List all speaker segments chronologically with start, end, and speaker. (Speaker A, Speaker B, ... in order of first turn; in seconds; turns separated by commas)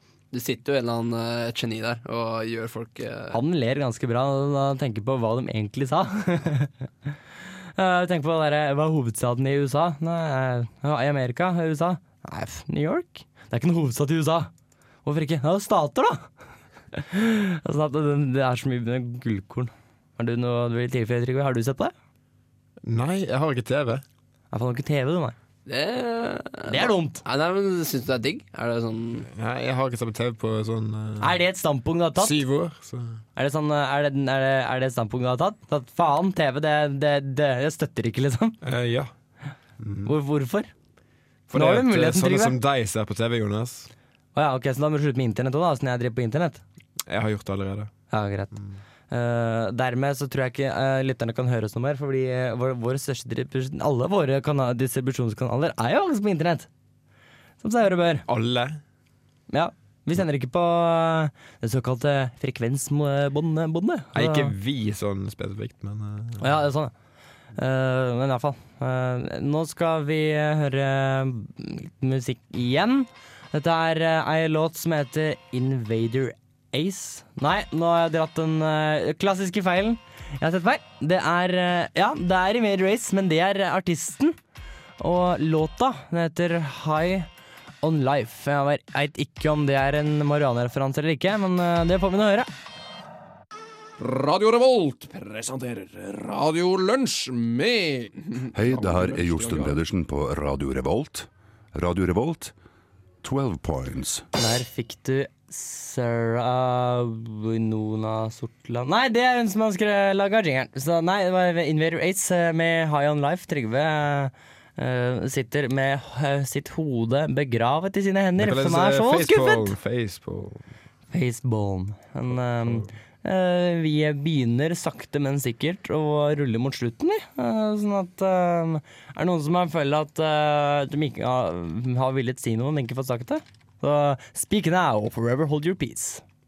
Speaker A: 0.3-3.4, Speaker B: 3.3-6.8, Speaker B: 7.8-14.5, Speaker B: 15.0-16.3, Speaker B: 16.9-21.9, Speaker C: 22.8-24.0, Speaker B: 24.5-25.4, Speaker A: 25.6-29.3, Speaker B: 26.6-27.2, Speaker C: 29.3-31.3, Speaker B: 31.2-32.4, Speaker C: 32.2-33.2, Speaker B: 33.4-38.6, Speaker C: 38.6-39.1, Speaker C: 39.8-40.1, Speaker B: 40.0-40.7, Speaker C: 41.5-43.9, Speaker B: 41.5-42.5, Speaker B: 44.3-46.6, Speaker C: 47.1-47.9, Speaker B: 48.1-48.5, Speaker B: 49.1-56.7, Speaker B: 57.6-58.2, Speaker C: 58.2-58.8, Speaker B: 59.5-64.5, Speaker C: 64.1-66.5, Speaker B: 66.4-66.9, Speaker B: 67.5-84.3, Speaker B: 85.0-87.3, Speaker B: 87.8-92.5, Speaker D: 94.0-99.8, Speaker E: 98.5-102.5, Speaker E: 103.2-104.3, Speaker B: 104.3-119.7, Speaker C: 118.4-120.6, Speaker B: 121.1-136.2